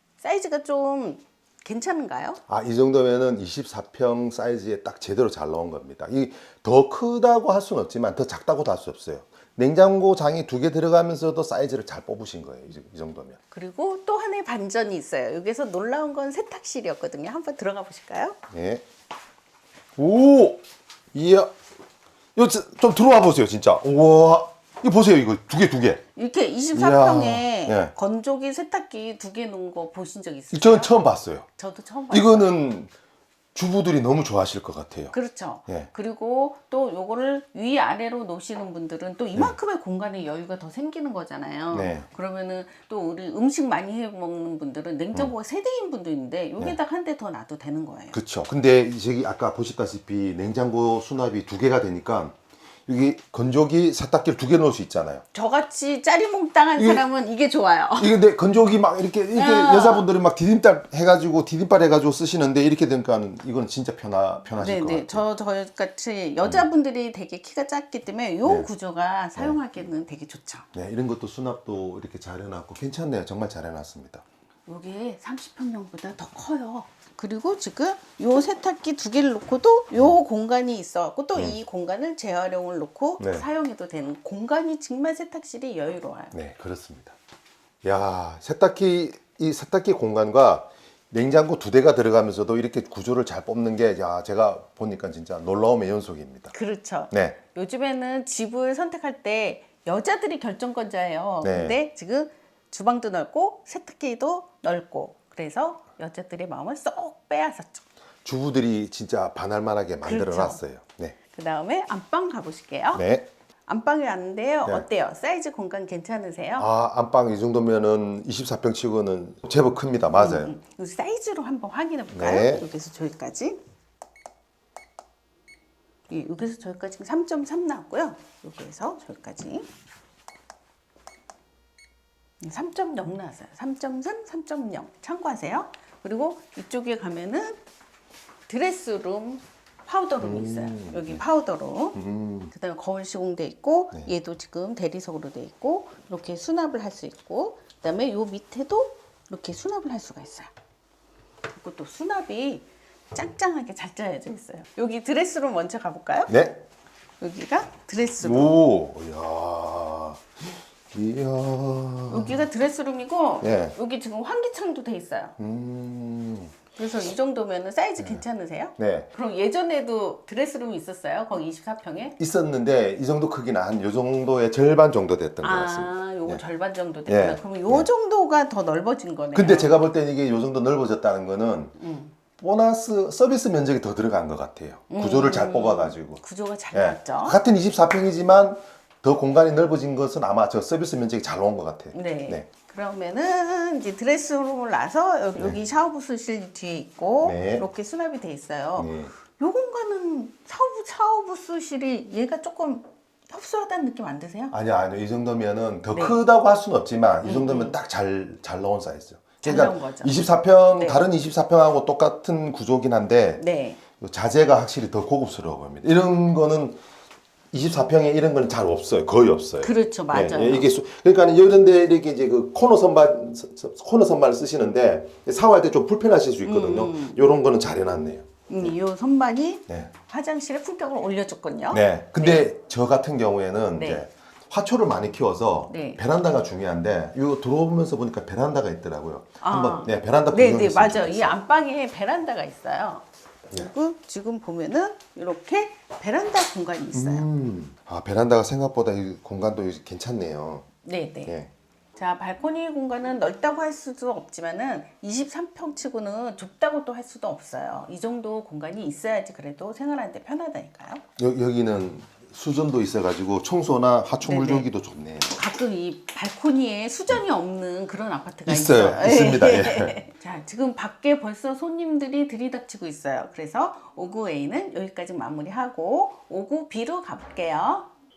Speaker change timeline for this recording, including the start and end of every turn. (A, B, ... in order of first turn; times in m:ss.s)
0:00.2-0:02.4 A
0:02.5-0:13.4 B
0:13.5-0:18.4 A
0:18.5-0:18.8 B
0:20.0-0:20.6 B
0:21.1-0:21.5 B
0:22.4-0:26.0 B
0:26.1-0:30.9 A
0:26.7-0:27.9 B
0:30.5-0:31.4 B
0:31.6-0:32.5 A
0:32.1-0:32.9 B
0:33.5-0:35.1 B
0:35.1-0:48.2 A
0:41.7-0:42.1 B
0:48.1-0:52.3 B
0:52.9-0:55.2 B
0:55.3-0:58.2 A
0:56.8-0:57.0 B
0:58.0-1:05.2 B
0:59.3-1:00.1 A
1:04.6-1:10.7 A
1:10.7-1:14.2 B
1:14.7-1:26.3 A
1:21.3-1:21.6 B
1:23.2-1:23.5 B
1:26.3-1:27.1 B
1:27.8-1:36.5 B
1:36.5-1:47.8 A
1:37.1-1:37.4 B
1:41.4-1:41.8 B
1:48.2-1:51.2 B
1:50.0-1:50.6 A
1:51.3-1:53.0 A
1:52.9-1:53.3 B
1:53.7-1:56.7 A
1:56.6-2:00.6 B
2:00.1-2:03.6 A
2:02.1-2:02.6 B
2:06.1-2:09.7 A
2:12.4-2:17.6 A
2:18.5-2:22.0 A
2:20.2-2:21.2 B
2:21.9-2:22.5 B
2:22.5-2:30.5 A
2:31.6-2:36.3 A
2:36.3-2:36.6 B
2:37.2-2:38.6 A
2:38.2-2:40.2 B
2:40.9-2:42.5 B
2:42.1-2:45.4 A
2:43.4-2:43.8 B
2:45.4-2:46.5 B
2:46.8-2:52.2 A
2:48.0-2:48.2 B
2:48.8-2:49.1 B
2:52.2-2:56.4 B
2:55.4-2:59.8 A
2:57.1-2:57.9 B
2:59.3-3:01.8 B
3:01.8-3:02.1 A
3:02.4-3:06.2 B
3:04.9-3:07.4 A
3:06.7-3:12.5 B
3:11.9-3:24.5 A
3:17.2-3:17.7 B
3:18.8-3:19.1 B
3:24.5-3:33.4 B
3:25.9-3:26.2 A
3:27.2-3:27.8 A
3:29.4-3:30.2 A
3:30.8-3:31.0 A
3:33.4-3:33.8 A
3:34.0-3:36.8 B
3:37.5-3:48.7 B
3:39.6-3:40.7 A
3:46.4-3:47.2 A
3:48.5-3:52.4 A
3:51.7-4:01.4 B
3:53.8-3:54.0 A
3:55.7-3:56.0 A
3:59.4-4:07.2 A
4:06.9-4:10.7 B
4:10.8-4:11.3 A
4:11.2-4:11.5 B
4:12.0-4:21.0 A
4:21.2-4:25.4 B
4:24.2-4:24.7 A
4:25.3-4:37.9 A
4:28.4-4:30.0 B